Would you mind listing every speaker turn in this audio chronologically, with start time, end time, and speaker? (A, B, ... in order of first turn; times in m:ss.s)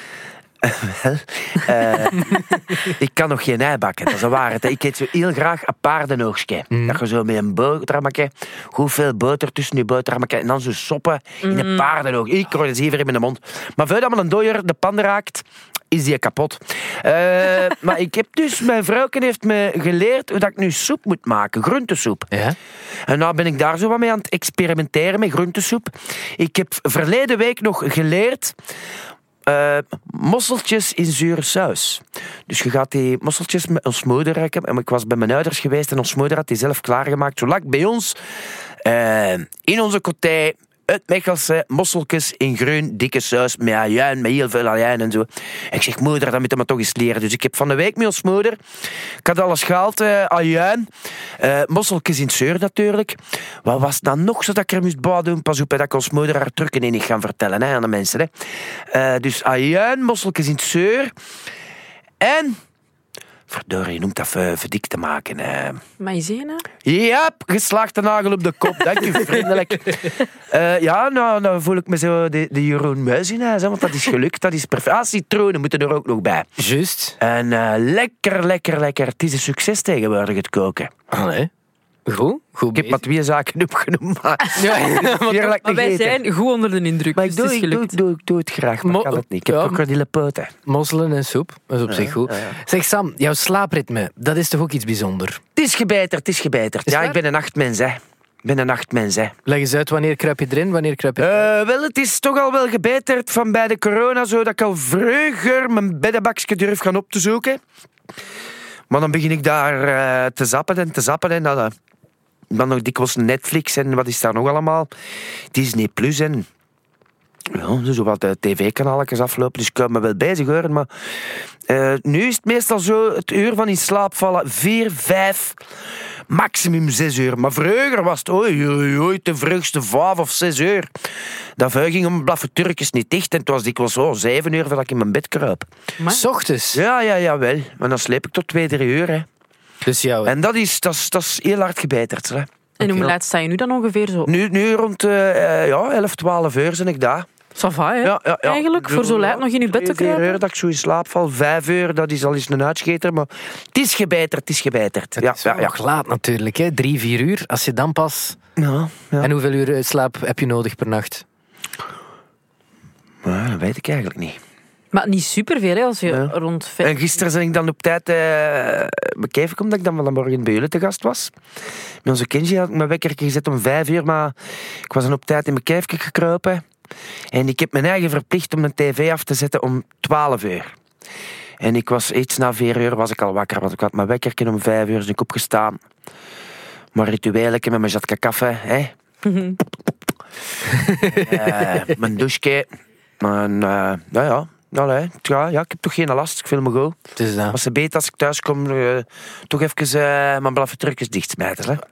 0:00.6-0:22.3 A
0:06.7-0:07.0 B
0:11.4-0:11.9 C
0:22.3-0:22.6 B
0:23.0-0:28.6 A
0:29.4-0:38.2 A
0:38.8-0:48.6 A
0:49.2-0:58.3 A
0:58.9-1:01.1 A
1:02.2-1:02.6 A
1:03.5-1:05.8 A
1:06.0-1:06.7 C
1:06.8-1:16.5 A
1:16.6-1:17.2 B
1:17.2-1:20.9 A
1:21.1-1:21.5 B
1:22.0-1:23.0 B
1:22.7-1:26.2 A
1:24.5-1:25.6 B
1:25.6-1:28.0 C
1:27.1-1:30.5 A
1:28.8-1:29.8 B
1:30.6-1:35.4 B
1:31.9-1:32.6 A
1:35.6-1:39.3 A
1:36.9-1:37.2 B
1:39.4-1:41.5 B
1:41.2-1:47.6 A
1:48.9-1:51.7 A
1:52.5-1:54.9 A
1:55.5-1:56.4 A
1:57.5-2:05.6 A
2:06.3-2:10.9 A
2:11.6-2:15.7 A
2:16.1-2:16.8 B
2:16.7-2:19.2 A
2:19.8-2:20.3 B
2:20.2-2:23.1 A
2:22.8-2:24.3 C
2:24.2-2:27.3 A
2:27.6-2:30.4 C
2:28.0-2:35.8 A
2:35.2-2:38.4 B
2:38.6-2:39.3 A
2:39.2-2:41.2 B
2:43.2-2:44.4 A
2:44.9-2:47.1 C
2:46.1-2:51.3 A
2:52.0-2:56.6 A
2:57.3-3:00.7 A
3:01.6-3:05.8 A
3:06.9-3:08.9 A
3:09.2-3:09.6 C
3:10.7-3:11.9 B
3:11.1-3:12.7 A
3:13.2-3:17.0 A
3:17.2-3:17.6 B
3:17.5-3:21.8 A